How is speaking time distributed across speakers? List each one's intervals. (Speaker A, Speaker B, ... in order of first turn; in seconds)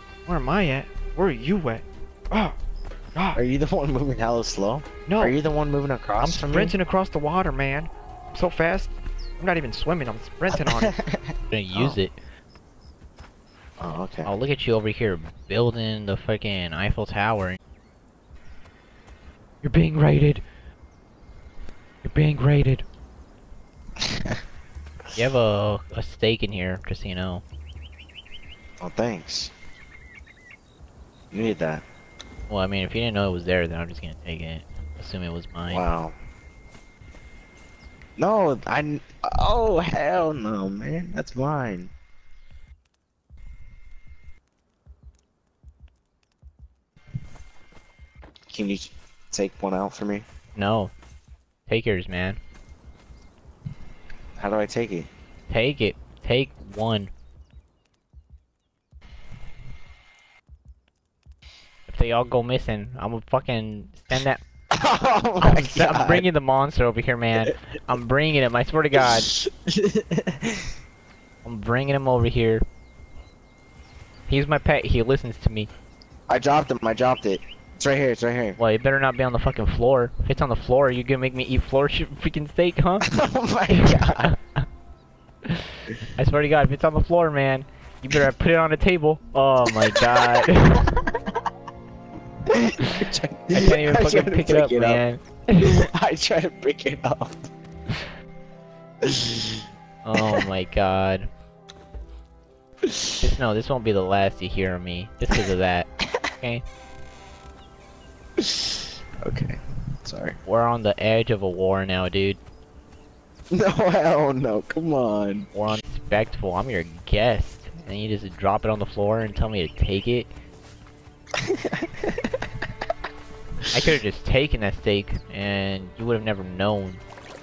Speaker A: 0.3-2.6, 3.1-3.4, 5.1-5.4, 6.2-10.9, 11.7-12.0, 19.6-20.4, 22.0-22.8
Speaker B: 3.4-6.8, 10.5-11.2, 13.8-14.3, 24.0-24.4, 28.8-29.5, 31.3-31.8, 35.7-36.1, 38.2-41.9, 48.5-50.2, 54.4-55.1, 64.8-66.3, 69.0-70.6, 76.3-78.6, 83.1-84.3, 92.5-95.0, 95.6-97.5, 99.1-99.6, 108.4-110.4, 113.5-115.5, 121.5-122.3
Speaker C: 11.5-12.2, 14.2-17.6, 25.1-27.4, 32.5-35.9, 50.5-50.9, 51.7-52.4, 55.5-57.1, 61.9-64.4, 65.4-69.3, 71.5-72.6, 74.3-75.7, 78.6-83.1, 83.7-84.4, 86.2-90.9, 93.5-95.8, 100.0-101.3, 103.2-105.9, 110.4-112.4, 115.5-120.3, 123.7-127.0